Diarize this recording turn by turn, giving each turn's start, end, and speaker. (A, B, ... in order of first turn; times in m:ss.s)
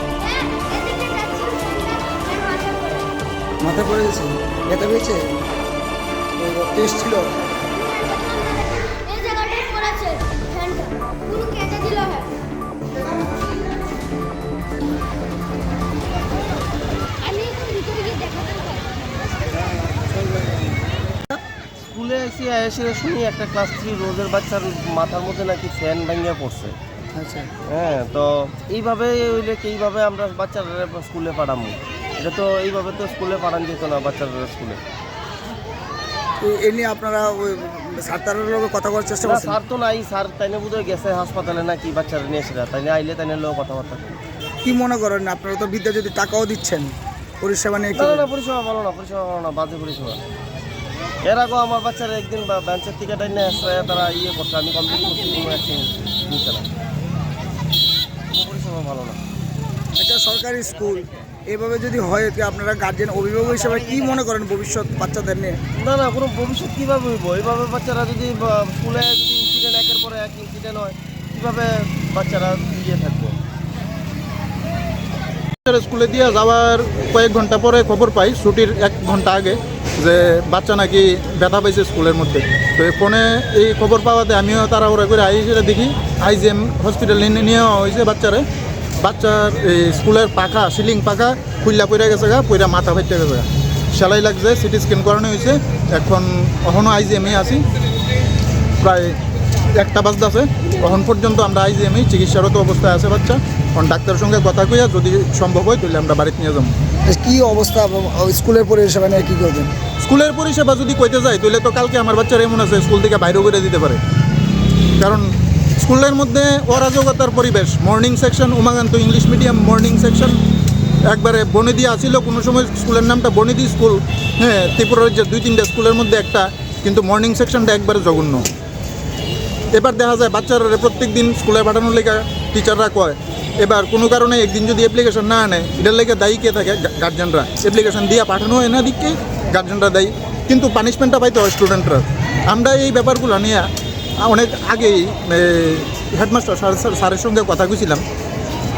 0:00.2-0:03.1 A
0:03.6-0:05.3 B
0:06.4-0:07.2 B
0:07.8-0:12.3 A
0:17.2-0:18.9 A
0:19.6-0:20.8 B
0:21.9-0:26.7 C
0:27.1-0:27.5 B
0:27.7-0:34.8 C
0:36.4-0:39.6 B
0:39.2-0:44.2 C
0:44.6-0:48.3 B
0:48.0-0:50.2 C
0:51.2-0:56.7 C
0:58.3-0:59.2 C
1:00.0-1:05.5 B
1:05.8-1:13.3 C
1:15.6-1:28.4 D
1:29.0-1:37.6 D
1:38.8-1:39.2 D
1:39.7-1:46.7 D
1:47.1-1:49.7 B
1:50.0-1:54.0 D
1:55.0-1:55.3 D
1:55.8-2:00.3 D
2:01.1-2:08.4 D
2:09.7-2:23.6 D
2:24.2-2:28.0 D